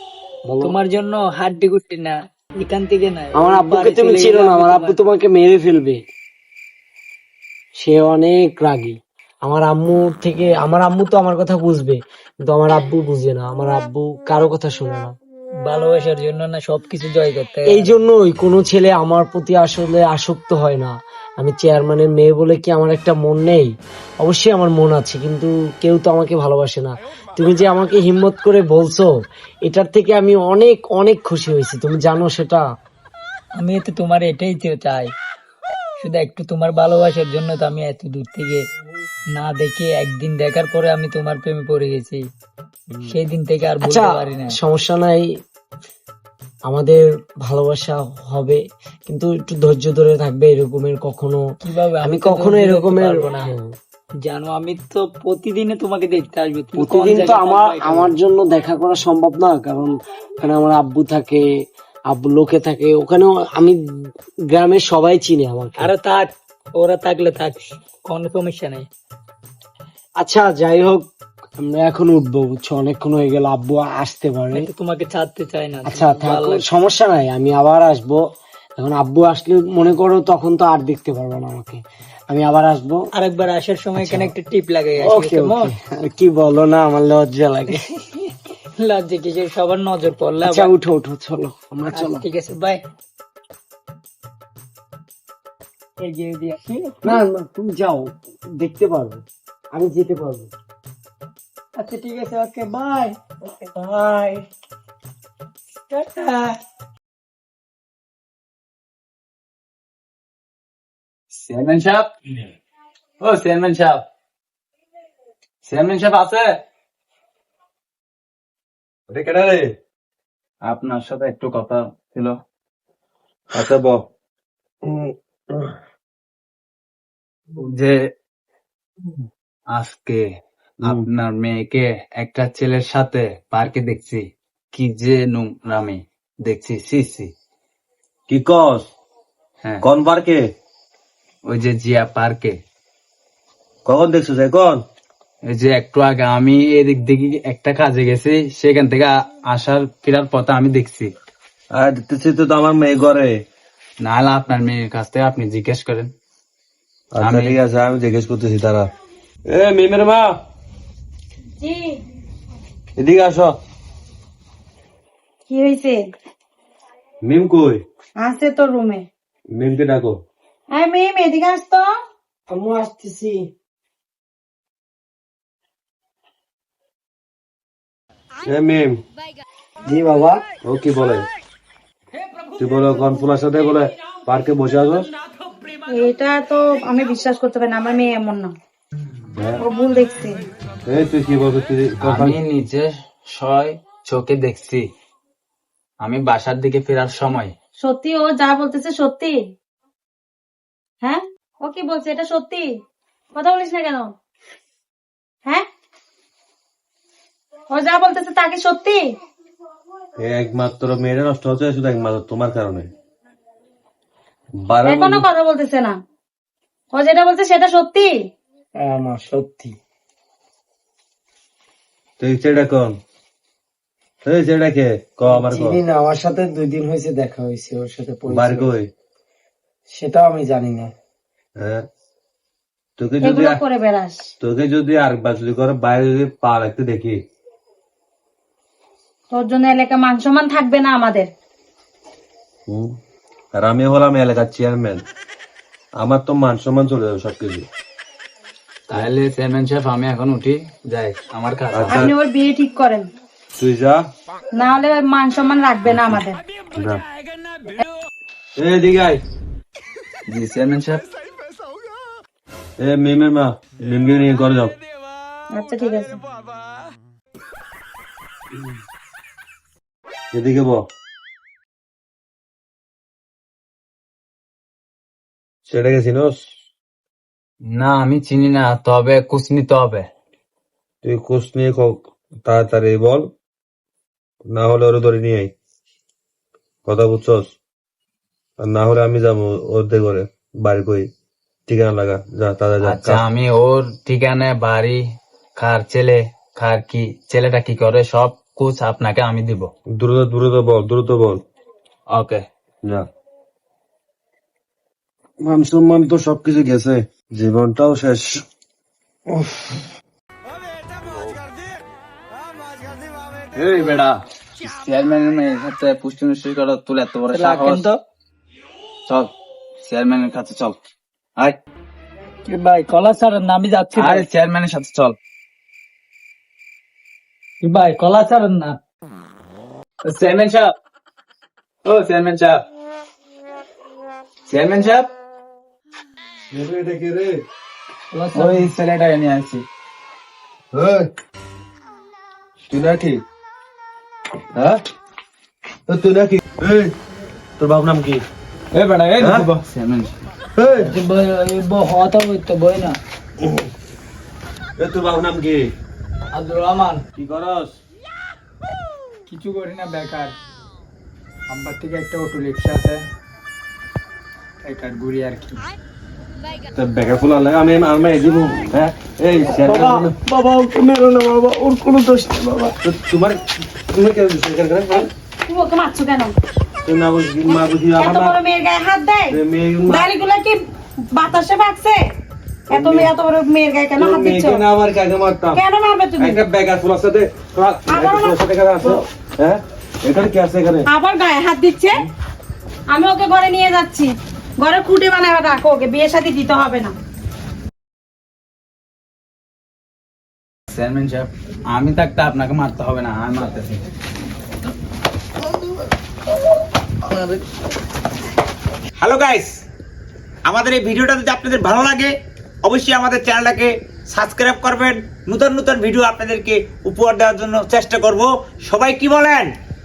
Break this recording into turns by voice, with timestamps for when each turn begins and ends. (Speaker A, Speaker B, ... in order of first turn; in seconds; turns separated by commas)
Speaker A: 0.5-0.8, Speaker B: 0.6-5.0, Speaker A: 3.3-6.0, Speaker A: 7.8-15.1, Speaker B: 15.7-17.9, Speaker A: 17.7-23.7, Speaker A: 24.2-29.1, Speaker A: 29.6-32.6, Speaker B: 33.6-35.1, Speaker B: 36.0-38.6, Speaker B: 39.3-42.2, Speaker B: 43.1-44.6, Speaker A: 43.8-45.3, Speaker A: 46.7-51.4, Speaker B: 51.6-53.5, Speaker A: 52.0-53.6, Speaker B: 54.3-58.1, Speaker A: 56.8-61.4, Speaker A: 62.1-63.8, Speaker A: 64.5-65.9, Speaker B: 65.8-68.8, Speaker A: 70.2-71.0, Speaker A: 71.6-74.7, Speaker B: 74.5-76.6, Speaker A: 75.8-78.2, Speaker A: 78.8-83.0, Speaker B: 83.2-85.7, Speaker A: 84.0-84.3, Speaker A: 85.0-87.8, Speaker B: 88.8-90.7, Speaker A: 90.4-92.2, Speaker B: 91.9-92.8, Speaker B: 96.0-97.2, Speaker A: 97.0-99.2, Speaker A: 99.7-100.5, Speaker B: 101.8-103.6, Speaker A: 103.8-104.4, Speaker B: 105.9-106.6, Speaker C: 111.3-112.1, Speaker C: 113.2-114.0, Speaker C: 115.6-116.5, Speaker D: 119.1-119.7, Speaker C: 120.6-122.4, Speaker D: 123.5-124.0, Speaker D: 124.9-125.7, Speaker C: 127.6-128.1, Speaker C: 129.7-130.2, Speaker C: 130.8-137.3, Speaker D: 138.3-138.9, Speaker D: 139.8-140.4, Speaker C: 141.5-142.6, Speaker D: 143.8-144.8, Speaker C: 145.4-151.1, Speaker D: 151.7-153.4, Speaker C: 154.0-156.1, Speaker D: 157.1-158.9, Speaker C: 157.2-157.6, Speaker D: 159.4-160.3, Speaker E: 161.6-162.0, Speaker D: 163.0-163.6, Speaker E: 165.5-166.1, Speaker D: 167.2-167.8, Speaker E: 168.2-169.1, Speaker D: 169.5-170.2, Speaker E: 170.7-172.0, Speaker A: 172.5-173.5, Speaker D: 178.4-179.0, Speaker A: 179.8-180.4, Speaker D: 180.6-181.3, Speaker D: 182.6-185.1, Speaker E: 185.9-188.5, Speaker D: 189.3-189.6, Speaker E: 189.6-190.4, Speaker D: 190.8-192.4, Speaker C: 192.0-194.9, Speaker C: 196.0-197.5, Speaker E: 197.8-199.4, Speaker E: 201.0-202.8, Speaker E: 203.3-204.1, Speaker E: 207.7-209.1, Speaker D: 210.2-212.9, Speaker D: 214.6-215.3, Speaker E: 214.8-216.0, Speaker E: 216.9-218.2, Speaker A: 218.8-219.7, Speaker D: 222.2-223.0, Speaker D: 224.2-225.8, Speaker A: 225.2-228.7, Speaker D: 228.3-228.9, Speaker A: 229.9-230.9, Speaker D: 233.0-233.6, Speaker E: 233.2-234.2, Speaker D: 234.4-237.2, Speaker E: 239.3-241.3, Speaker D: 242.7-242.9, Speaker D: 243.5-245.0, Speaker D: 246.0-247.7, Speaker C: 248.9-252.1, Speaker D: 251.7-252.2, Speaker E: 251.9-253.1, Speaker D: 253.6-254.0, Speaker E: 254.6-256.4, Speaker D: 256.8-257.0, Speaker D: 258.6-259.2, Speaker C: 260.3-261.0, Speaker D: 262.8-264.8, Speaker E: 265.5-266.2, Speaker D: 270.3-270.9, Speaker D: 275.7-276.4, Speaker C: 277.7-280.1, Speaker D: 281.0-283.3, Speaker D: 284.4-285.5, Speaker D: 286.9-287.5, Speaker D: 288.6-291.1, Speaker D: 291.7-293.2, Speaker C: 292.8-295.0, Speaker C: 295.6-299.7, Speaker D: 300.0-301.4, Speaker C: 302.1-302.4, Speaker D: 305.4-308.4, Speaker C: 313.6-317.8, Speaker B: 317.3-318.0, Speaker C: 319.8-320.8, Speaker B: 322.5-324.2, Speaker C: 323.9-325.1, Speaker B: 327.6-328.8, Speaker C: 330.1-330.7, Speaker C: 331.9-332.6, Speaker C: 334.5-335.1, Speaker D: 336.5-337.4, Speaker B: 338.1-338.7, Speaker C: 338.3-339.6, Speaker D: 340.7-341.1, Speaker D: 342.7-343.2, Speaker D: 344.5-344.8, Speaker D: 345.9-346.9, Speaker D: 347.6-348.2, Speaker C: 348.7-350.1, Speaker D: 349.2-349.5, Speaker D: 350.6-350.9, Speaker B: 350.8-353.0, Speaker D: 354.8-355.6, Speaker B: 356.3-357.0, Speaker D: 357.2-357.8, Speaker B: 359.3-360.3, Speaker B: 361.5-363.0, Speaker B: 364.6-365.6, Speaker D: 366.7-370.1, Speaker A: 369.5-372.7, Speaker D: 372.8-373.4, Speaker D: 373.9-375.1, Speaker E: 375.5-376.3, Speaker D: 376.8-378.4, Speaker E: 377.4-379.3, Speaker D: 379.3-380.1, Speaker E: 379.9-380.6, Speaker E: 381.1-382.0, Speaker D: 382.7-383.1, Speaker E: 382.7-384.6, Speaker D: 384.0-385.6, Speaker E: 385.5-386.4, Speaker D: 386.2-390.9, Speaker E: 387.9-389.0, Speaker E: 390.9-392.1, Speaker E: 392.9-396.9, Speaker C: 400.7-403.8, Speaker F: 409.0-409.6, Speaker F: 410.4-419.5